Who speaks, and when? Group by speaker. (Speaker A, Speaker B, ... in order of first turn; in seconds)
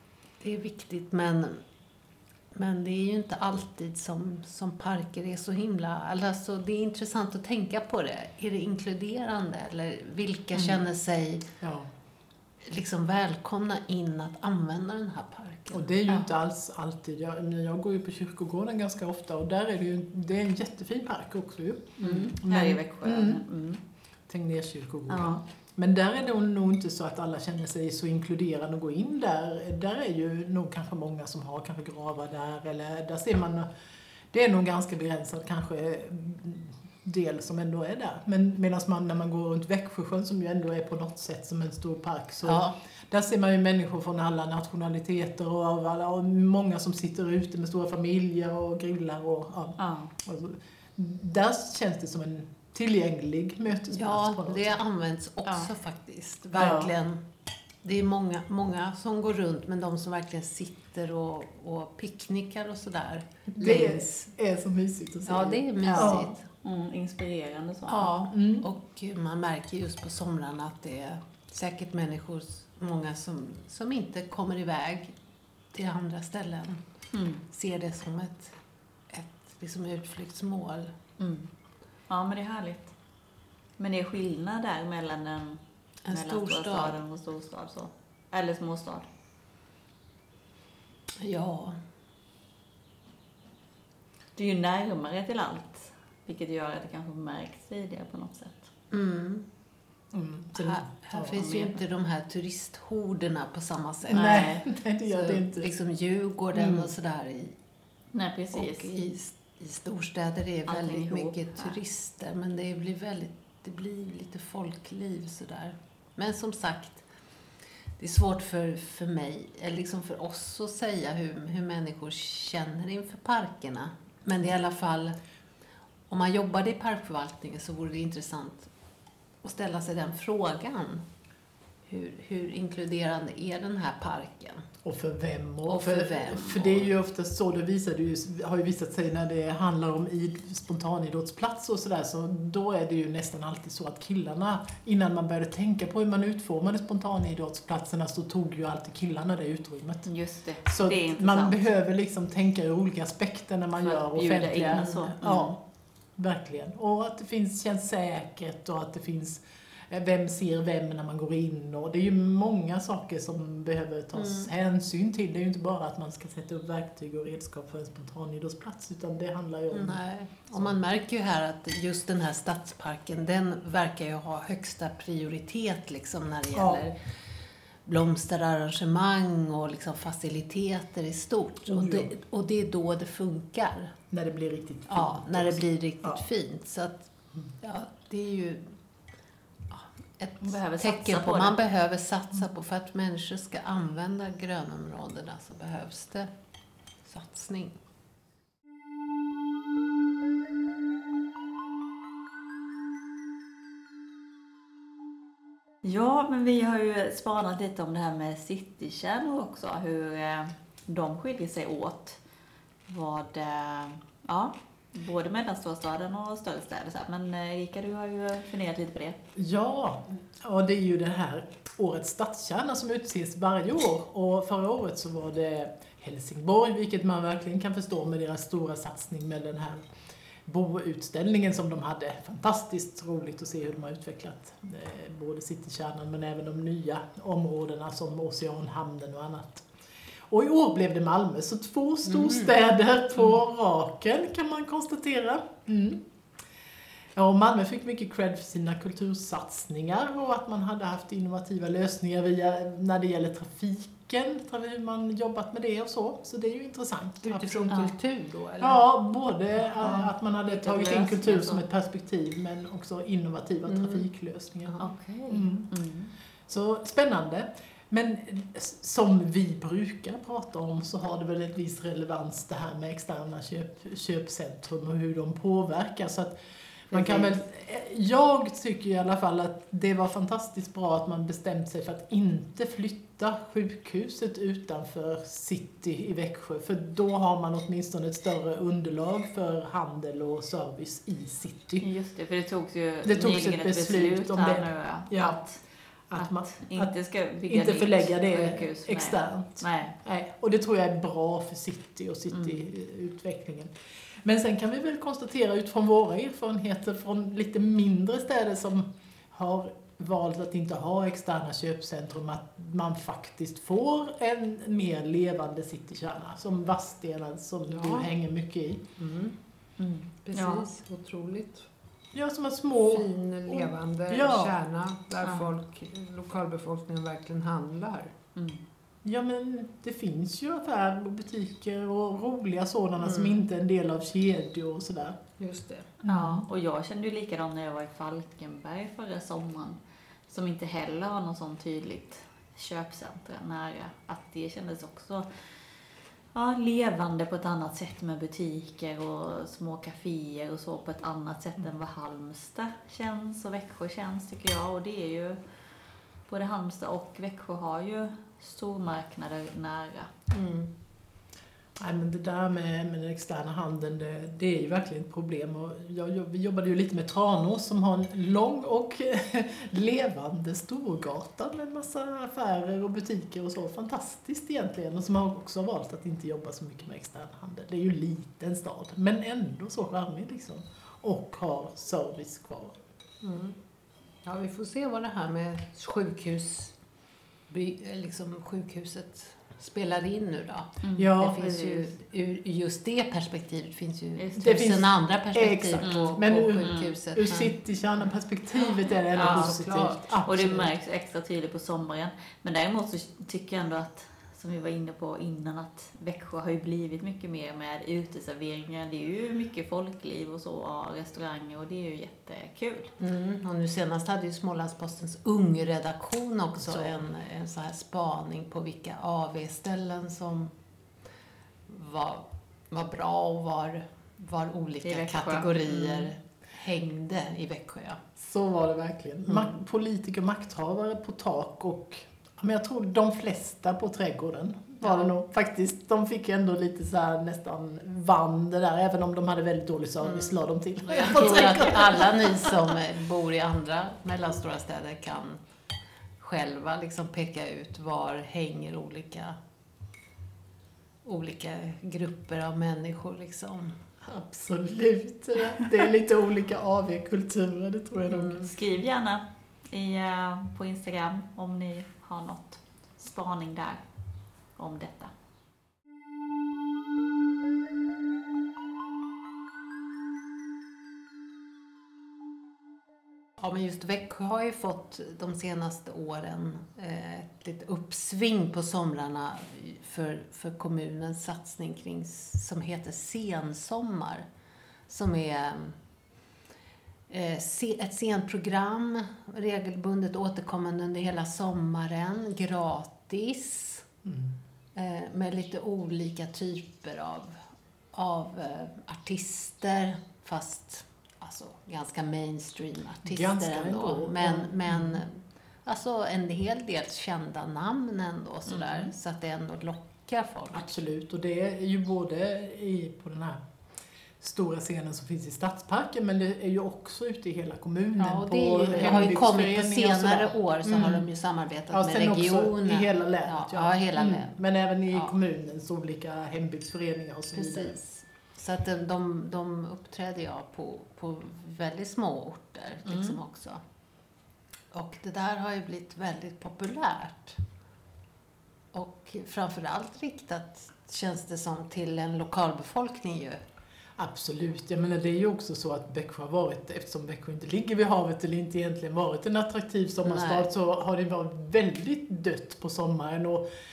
Speaker A: 0.4-1.6, 2.5-11.5, 12.6-15.9, 42.4-42.7, 53.9-57.2, 57.8-64.2, 65.2-66.4, 67.9-75.1, 75.7-76.8, 77.5-78.6, 79.1-80.9, 86.0-87.0, 91.2-91.8, 98.9-99.4, 100.6-104.5, 105.2-107.5, 108.5-117.0, 118.0-125.2, 126.1-128.7, 129.4-131.0, 131.9-134.7, 135.7-136.9, 164.1-164.5, 169.7-176.9, 177.8-183.9, 184.9-188.8, 189.7-196.3, 197.0-197.8, 242.1-242.5, 257.2-258.8, 263.7-264.0, 276.9-277.3, 317.7-318.1, 319.0-319.3, 320.2-321.7, 322.8-328.1, 333.0-333.4, 335.4-336.0, 360.3-360.7, 383.2-383.5, 384.2-386.7, 387.5-397.5, 399.1-400.0, 413.0-420.5, 421.7-428.0, 440.0-445.4, 446.2-449.4, 451.0-453.8, 473.4-484.2, 484.9-485.8, 487.1-493.9, 494.8-497.4, 497.9-510.7, 518.0-524.3, 527.3-533.6, 534.7-537.4, 538.7-543.4, 550.0-550.5
Speaker B: 10.5-10.8, 11.6-11.9, 15.7-23.4, 24.3-33.7, 34.3-54.8, 56.5-56.9, 63.5-66.3, 68.3-68.7, 100.1-101.4, 104.1-105.7, 106.5-106.9, 134.8-150.1, 150.7-155.6, 156.2-170.0, 176.5-176.8, 181.7-182.1, 184.1-186.2, 219.3-229.8, 230.4-239.7, 240.3-246.0, 247.1-257.9, 258.6-265.7, 266.5-276.3, 276.9-291.9, 293.0-295.4, 296.1-296.9, 297.5-303.7, 304.2-318.9, 322.1-324.6, 329.0-335.2, 336.0-336.4, 361.8-382.7, 390.9-391.6, 394.4-400.7, 416.6-416.9, 428.2-442.7, 454.0-458.5, 494.0-494.3, 503.0-505.0, 510.5-513.4, 514.2-521.0, 521.7-527.8, 544.0-553.4
Speaker C: 22.0-23.8, 25.1-25.4, 49.8-50.1, 65.9-68.1, 77.1-77.4, 81.2-81.5, 82.1-82.9, 83.8-89.1, 94.3-98.7, 101.3-101.8, 104.1-104.7, 108.1-108.9, 110.7-111.8, 150.1-151.6, 153.8-155.6, 190.4-191.6, 205.8-212.2, 212.9-219.2, 259.8-261.6, 264.8-266.1, 291.8-295.6, 296.2-299.9, 302.3-302.6, 319.8-320.7, 325.2-325.5, 328.3-328.6, 336.0-345.3, 346.3-355.4, 356.3-360.1, 390.8-391.9, 394.1-394.5, 395.8-396.9, 399.1-399.6, 400.2-412.9, 424.8-426.1, 458.1-463.8, 464.6-465.1, 508.5-508.9, 532.9-533.1